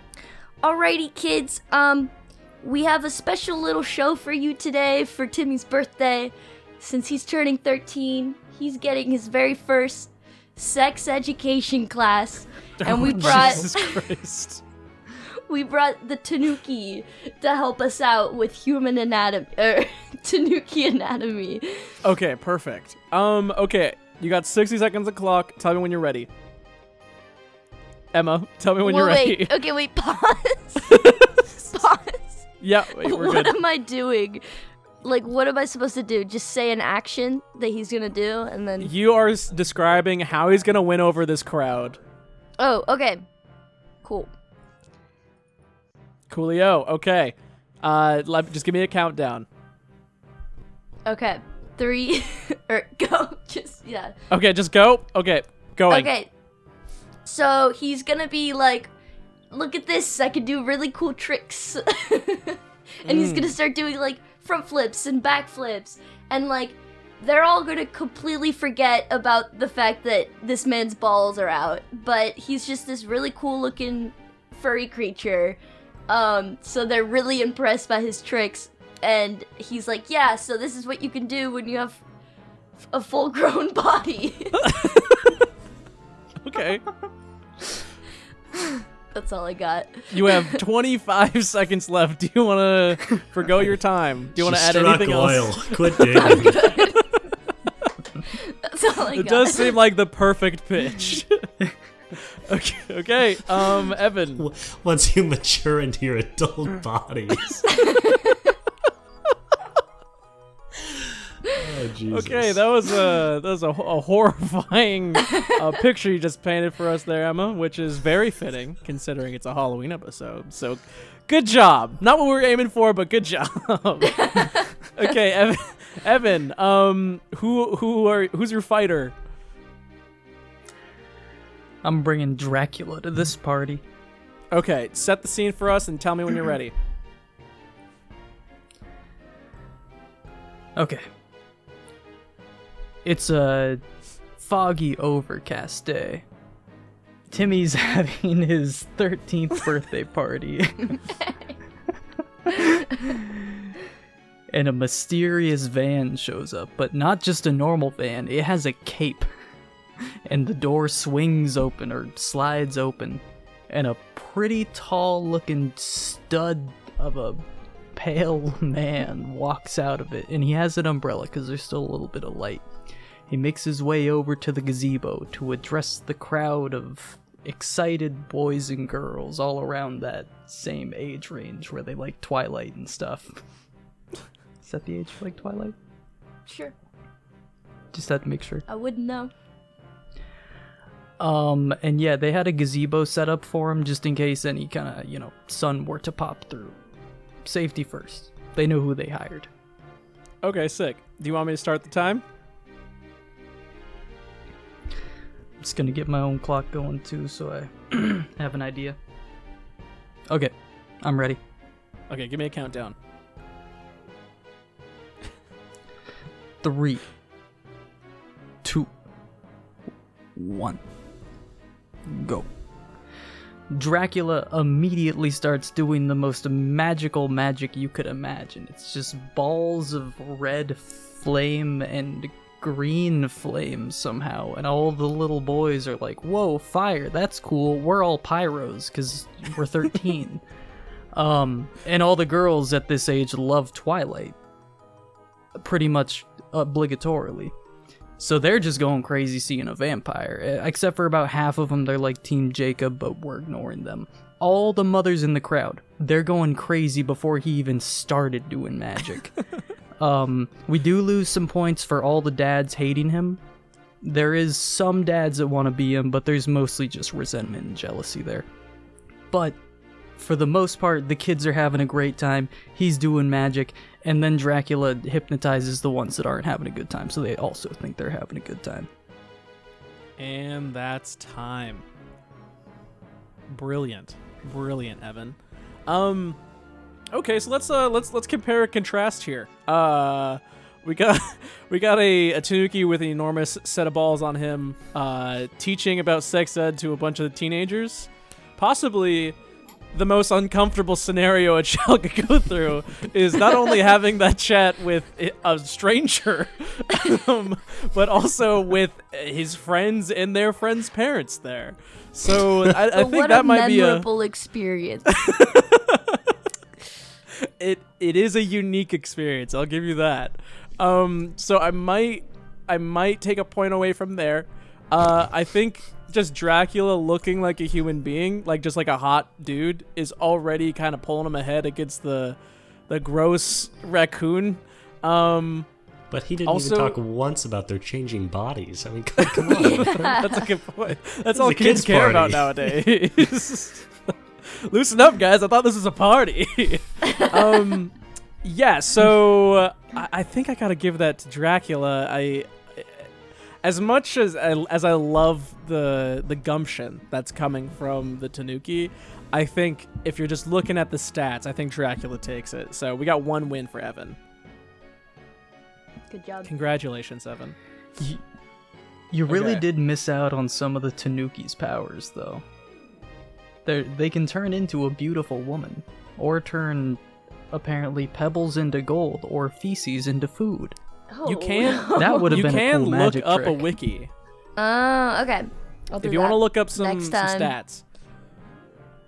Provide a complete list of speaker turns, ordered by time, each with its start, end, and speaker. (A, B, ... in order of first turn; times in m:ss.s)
0:00.6-0:14.0 A
0:12.8-0:14.6 B
0:13.0-0:13.5 C
0:15.5-0:21.9 A
0:22.0-0:26.3 B
0:28.1-0:29.5 B
0:28.8-0:32.4 A
0:30.9-0:31.3 B
0:32.6-0:33.5 B
0:33.0-0:34.4 A
0:35.0-0:38.9 A
0:38.8-0:42.0 B
0:42.6-0:43.2 A
0:44.0-0:44.3 A
0:46.3-0:49.4 B
0:51.0-0:54.1 A
0:54.3-0:56.1 B
0:55.9-0:56.3 A
0:57.2-0:58.9 A
0:59.5-1:22.0 A
1:03.0-1:03.5 B
1:22.9-1:25.2 A
1:24.6-1:25.3 B
1:26.4-1:26.9 B
1:28.6-1:30.5 A
1:30.1-1:37.0 B
1:34.4-1:36.9 D
1:36.2-1:37.0 A
1:38.2-1:39.7 A
1:39.1-1:41.5 B
1:42.4-1:44.4 B
1:44.4-1:47.6 D
1:47.8-1:48.5 A
1:51.4-1:52.6 D
1:52.1-2:09.1 B
2:04.1-2:04.6 A
2:11.8-2:13.8 C
2:14.5-2:16.7 B
2:20.8-2:21.0 C
2:23.0-2:23.8 C
2:24.4-2:26.2 C
2:27.3-2:31.0 C
2:31.2-2:31.5 A
2:32.4-2:33.7 C
2:34.5-2:39.3 C
2:40.0-2:47.4 C
2:47.9-2:52.7 C
2:53.3-3:03.4 C
3:04.6-3:05.8 C
3:06.4-3:06.7 A
3:07.9-3:08.6 C
3:08.7-3:09.3 A
3:11.2-3:16.8 C
3:17.4-3:19.5 C
3:20.4-3:22.2 B
3:25.6-3:29.0 C
3:30.3-3:31.4 C
3:32.1-3:33.0 B
3:36.6-3:37.0 C
3:38.6-3:38.9 C
3:40.3-3:40.8 C
3:42.0-3:42.5 C
3:43.7-4:00.4 C
4:01.1-4:04.4 C
4:05.6-4:07.5 C
4:08.2-4:19.3 C
4:20.0-4:23.4 C
4:24.0-4:28.5 C
4:29.3-4:29.6 C
4:30.2-4:38.9 C
4:40.2-4:41.8 B
4:43.5-4:46.4 B
4:47.1-4:59.4 B
4:59.9-5:14.0 B
5:12.8-5:15.4 A
5:15.2-5:16.2 B
5:17.3-5:32.4 B
5:32.9-5:35.7 B
5:36.1-5:40.2 D
5:36.4-5:37.0 B
5:39.2-5:53.1 B
5:39.6-5:40.2 A
5:41.3-5:42.7 D
5:53.6-6:04.2 B
6:06.1-6:06.5 A
6:06.4-6:07.6 B
6:09.1-6:12.4 C
6:09.3-6:09.6 B
6:13.6-6:17.0 C
6:17.5-6:20.8 C
6:21.1-6:22.6 A
6:21.2-6:24.1 B
6:22.0-6:23.6 C
6:24.6-6:27.5 A
6:26.0-6:27.8 B